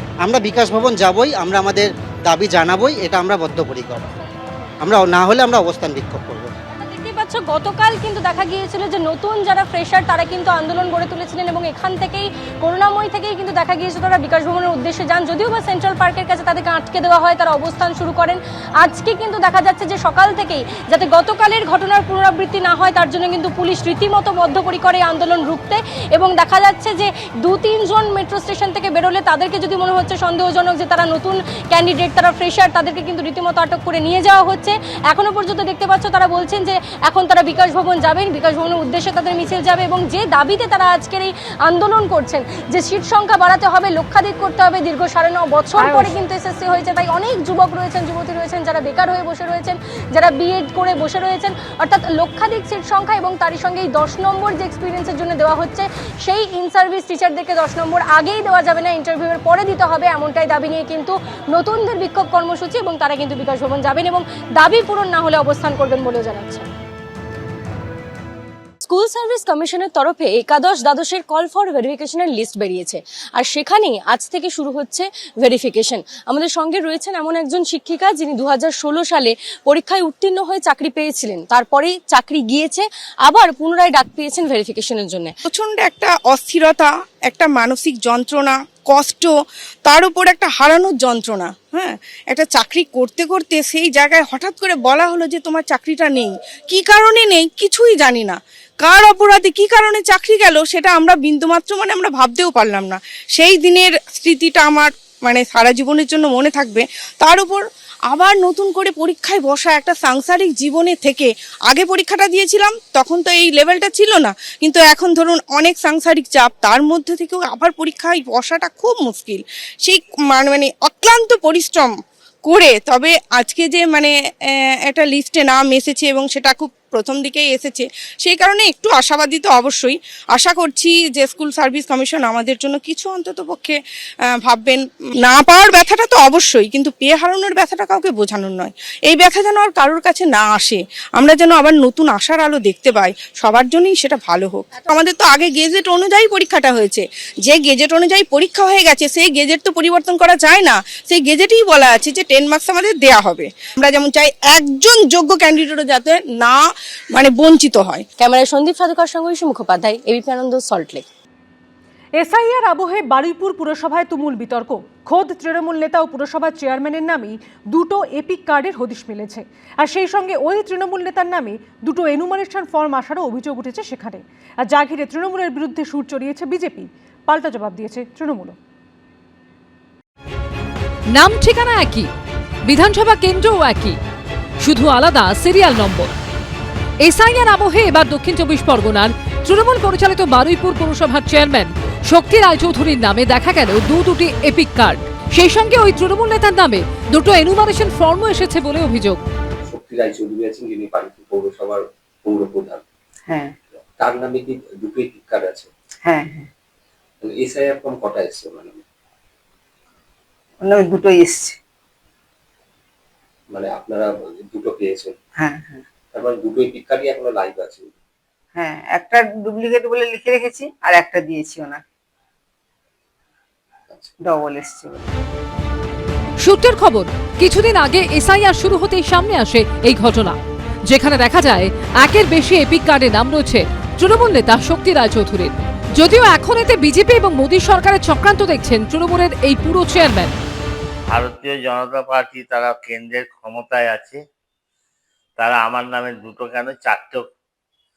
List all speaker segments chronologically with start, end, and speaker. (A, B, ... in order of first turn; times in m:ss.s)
0:00.2-0:04.2 A
0:04.8-0:06.5 A
0:06.7-1:06.7 B
0:45.8-0:46.2 C
1:08.8-1:25.4 B
1:25.4-1:29.3 D
1:29.8-2:38.0 D
2:38.2-2:41.0 B
2:42.2-2:58.5 C
3:01.1-3:02.1 E
3:02.7-3:04.0 E
3:04.6-3:06.1 E
3:07.0-3:19.2 E
3:19.6-3:22.8 F
3:23.3-3:23.6 G
3:23.7-3:25.7 F
3:26.0-3:26.5 G
3:27.2-3:28.8 F
3:30.6-3:31.6 G
3:33.5-3:35.1 F
3:35.4-3:35.8 G
3:36.1-3:37.9 F
3:38.5-3:41.8 G
3:44.2-3:45.1 G
3:46.4-3:50.4 E
3:50.9-4:00.3 E
4:01.1-4:04.2 H
4:05.4-4:07.2 H